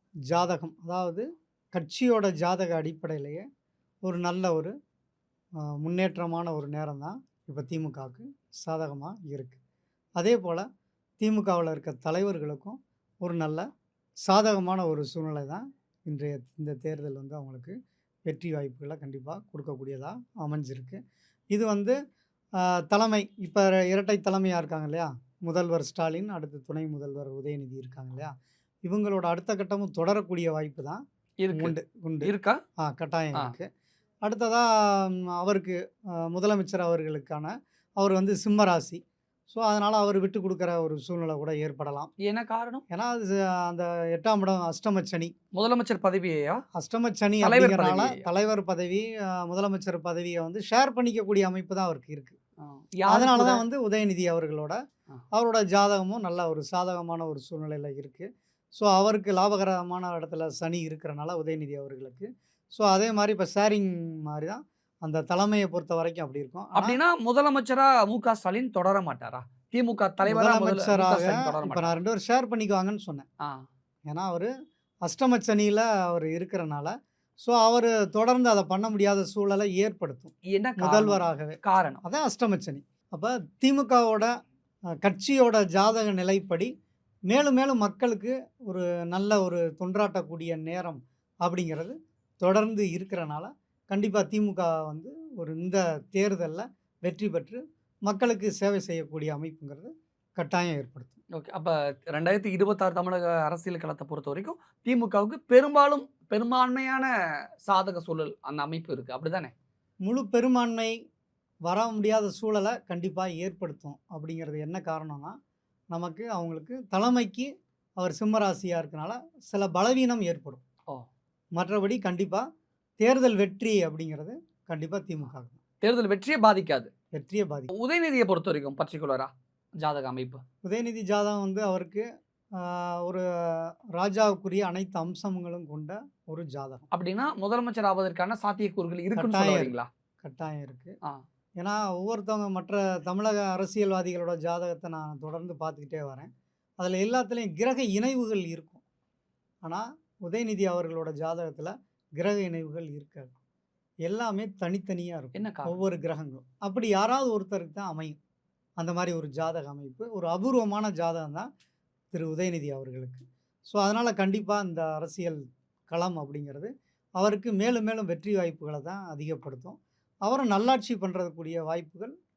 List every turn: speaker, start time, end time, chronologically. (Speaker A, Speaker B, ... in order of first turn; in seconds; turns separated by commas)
Speaker A: 0.3-3.4, Speaker A: 4.0-4.7, Speaker A: 5.8-9.6, Speaker A: 10.2-10.7, Speaker A: 11.2-13.7, Speaker A: 14.2-17.8, Speaker A: 18.3-21.0, Speaker A: 21.5-21.9, Speaker A: 22.6-28.3, Speaker A: 28.9-31.0, Speaker B: 31.4-32.6, Speaker A: 31.5-33.7, Speaker A: 34.2-42.1, Speaker B: 42.2-42.8, Speaker A: 42.9-45.3, Speaker B: 45.5-46.6, Speaker A: 46.8-52.4, Speaker B: 47.4-48.3, Speaker B: 52.6-53.6, Speaker A: 53.1-54.8, Speaker A: 55.3-67.0, Speaker B: 66.8-72.0, Speaker A: 70.2-73.2, Speaker A: 74.1-74.5, Speaker A: 75.0-84.3, Speaker B: 80.5-82.0, Speaker A: 85.0-86.7, Speaker A: 87.3-101.2, Speaker B: 101.3-107.1, Speaker B: 107.6-109.5, Speaker A: 110.0-111.0, Speaker A: 111.7-115.4, Speaker A: 115.9-120.6, Speaker A: 121.6-122.5, Speaker A: 123.0-125.6, Speaker B: 125.8-126.9, Speaker A: 127.1-127.7, Speaker B: 127.7-130.4, Speaker A: 130.6-132.1, Speaker A: 132.6-136.9, Speaker B: 136.9-139.9, Speaker A: 139.2-140.9, Speaker A: 141.6-148.8, Speaker A: 149.6-153.3, Speaker A: 154.1-158.2, Speaker B: 155.3-155.8, Speaker A: 158.8-161.5, Speaker A: 162.1-172.1